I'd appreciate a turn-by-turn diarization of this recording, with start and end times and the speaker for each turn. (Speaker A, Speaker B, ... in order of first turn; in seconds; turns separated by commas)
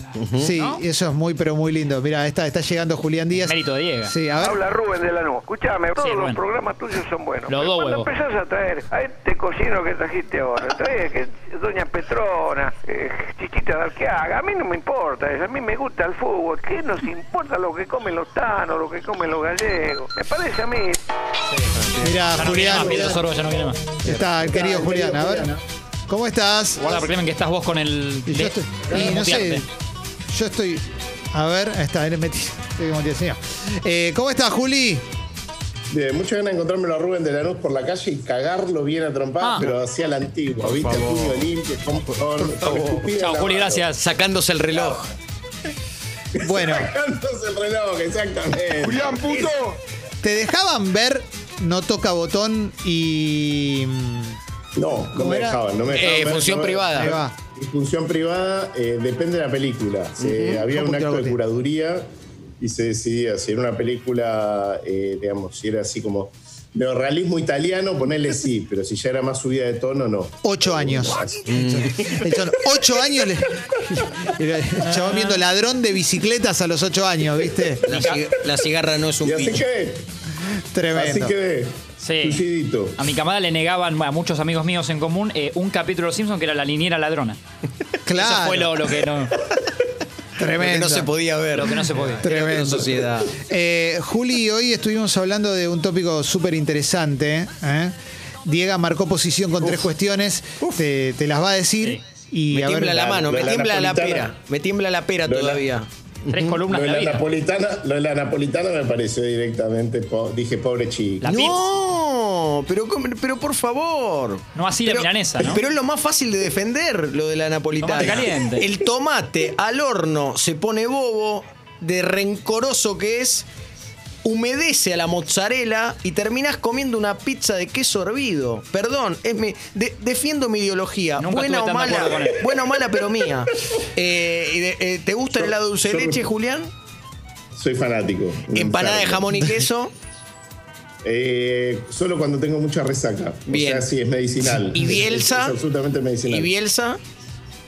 Speaker A: 0.2-0.5, Speaker B: 0.4-4.6, Speaker C: 0.6-0.8, Speaker C: 3.5-4.1, Speaker D: 4.4-21.0, Speaker C: 6.0-6.4, Speaker C: 7.5-8.1, Speaker A: 21.7-22.1, Speaker B: 22.0-23.2, Speaker C: 22.3-23.9, Speaker B: 24.0-25.5, Speaker E: 24.1-25.5, Speaker B: 26.1-27.1, Speaker C: 26.8-29.6, Speaker B: 28.3-29.6, Speaker B: 30.3-35.0, Speaker E: 35.9-43.9, Speaker C: 39.4-39.7, Speaker A: 40.6-41.5, Speaker A: 42.4-43.1, Speaker C: 43.2-44.0, Speaker A: 44.0-45.0, Speaker E: 44.8-45.1, Speaker E: 46.4-49.6, Speaker B: 46.4-46.9, Speaker B: 50.2-54.4, Speaker E: 54.8-62.1, Speaker B: 55.1-55.6, Speaker A: 55.9-57.1, Speaker B: 57.0-57.3, Speaker A: 60.2-60.6, Speaker B: 60.7-61.4, Speaker E: 62.6-72.0, Speaker B: 70.4-77.9, Speaker A: 71.5-72.3, Speaker C: 74.9-75.4, Speaker A: 77.8-79.6, Speaker C: 77.9-78.2, Speaker E: 79.2-80.1, Speaker B: 80.7-81.3, Speaker E: 80.9-83.0, Speaker C: 82.0-82.4, Speaker C: 83.0-87.4, Speaker B: 88.0-88.7, Speaker C: 88.2-89.4, Speaker B: 90.4-91.1, Speaker A: 90.6-93.4, Speaker C: 91.5-92.3, Speaker B: 92.2-103.2, Speaker A: 102.5-106.6, Speaker E: 103.1-104.3, Speaker E: 105.2-105.6, Speaker C: 106.3-107.2, Speaker E: 106.7-111.5, Speaker C: 111.2-111.6, Speaker A: 111.3-123.5, Speaker C: 114.5-115.6, Speaker C: 117.8-118.7, Speaker A: 124.2-136.7, Speaker C: 131.2-132.5, Speaker E: 135.3-136.3, Speaker E: 137.6-139.6, Speaker A: 138.5-139.9, Speaker E: 141.0-146.5, Speaker A: 143.5-143.9, Speaker A: 144.7-145.6, Speaker A: 146.3-147.0